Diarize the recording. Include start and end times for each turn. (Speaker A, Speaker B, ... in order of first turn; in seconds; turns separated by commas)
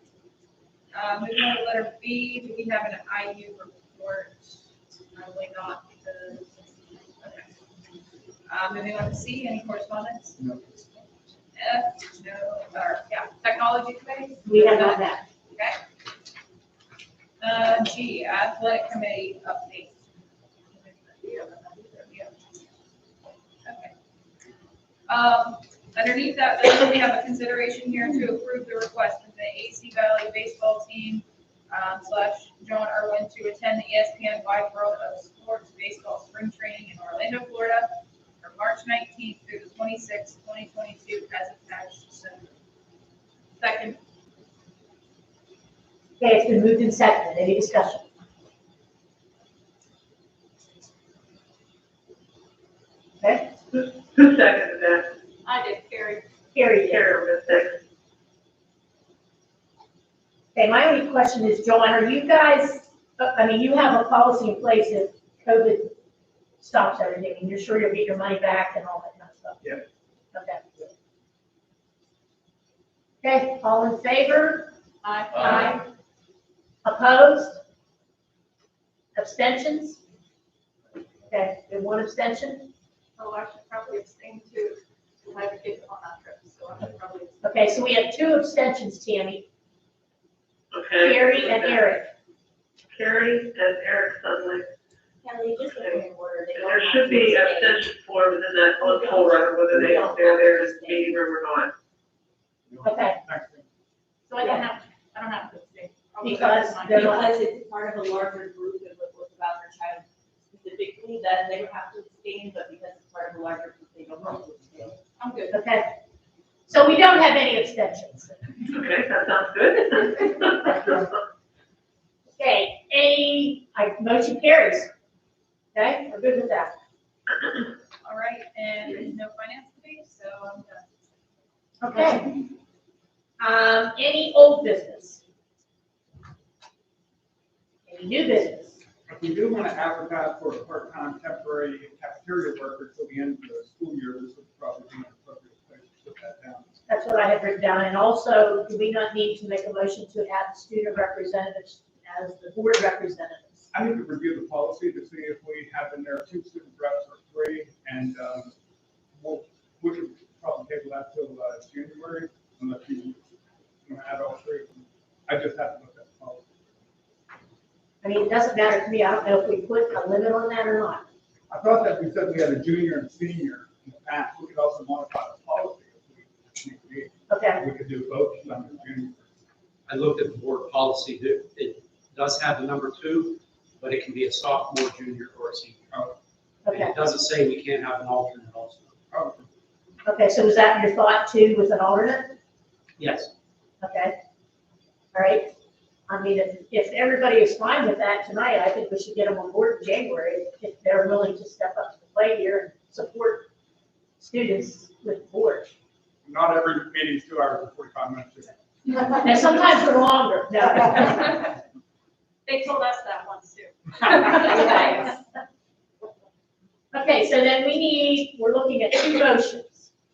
Speaker A: 0.9-4.5, Speaker A: 5.1-6.7, Speaker A: 7.2-7.5, Speaker A: 8.5-10.4, Speaker A: 11.5-15.8, Speaker B: 14.4-15.2, Speaker A: 17.4-20.0, Speaker A: 20.7-22.4, Speaker A: 23.6-23.9, Speaker A: 25.1-42.5, Speaker A: 43.6-44.0, Speaker B: 46.2-48.0, Speaker B: 53.2-53.5, Speaker C: 53.7-55.1, Speaker A: 55.4-56.2, Speaker B: 56.5-57.1, Speaker C: 56.8-57.8, Speaker B: 60.5-65.9, Speaker B: 66.6-69.6, Speaker B: 70.3-70.7, Speaker B: 73.2-74.7, Speaker A: 75.0-75.8, Speaker B: 75.3-75.8, Speaker B: 76.8-77.6, Speaker B: 79.1-80.0, Speaker B: 81.3-82.7, Speaker A: 83.2-87.5, Speaker B: 87.4-89.5, Speaker C: 90.7-91.8, Speaker B: 91.0-92.1, Speaker C: 92.9-94.7, Speaker D: 95.2-97.9, Speaker C: 95.8-101.7, Speaker D: 98.8-101.2, Speaker E: 102.7-103.6, Speaker B: 102.8-103.2, Speaker A: 104.3-107.3, Speaker B: 106.2-107.2, Speaker D: 106.9-115.0, Speaker A: 115.2-115.6, Speaker B: 115.5-115.9, Speaker B: 116.7-118.4, Speaker C: 118.7-121.1, Speaker B: 122.3-124.9, Speaker B: 125.7-126.8, Speaker A: 128.0-130.8, Speaker B: 131.8-132.4, Speaker B: 133.4-135.2, Speaker B: 137.8-138.8, Speaker E: 139.1-146.8, Speaker B: 146.9-153.7, Speaker E: 153.7-158.5, Speaker E: 159.2-163.2, Speaker E: 163.8-166.5, Speaker B: 168.0-171.0, Speaker E: 171.5-179.3, Speaker B: 177.3-177.6, Speaker F: 179.9-185.8, Speaker B: 186.7-186.9, Speaker F: 186.7-188.9, Speaker E: 189.1-189.5, Speaker B: 190.0-192.3, Speaker F: 193.0-193.3, Speaker B: 193.8-194.1, Speaker B: 195.1-195.5, Speaker B: 196.1-203.5, Speaker B: 204.2-205.7, Speaker E: 206.2-208.6, Speaker B: 209.1-211.4, Speaker A: 212.4-215.2, Speaker B: 214.2-215.1, Speaker B: 216.9-219.9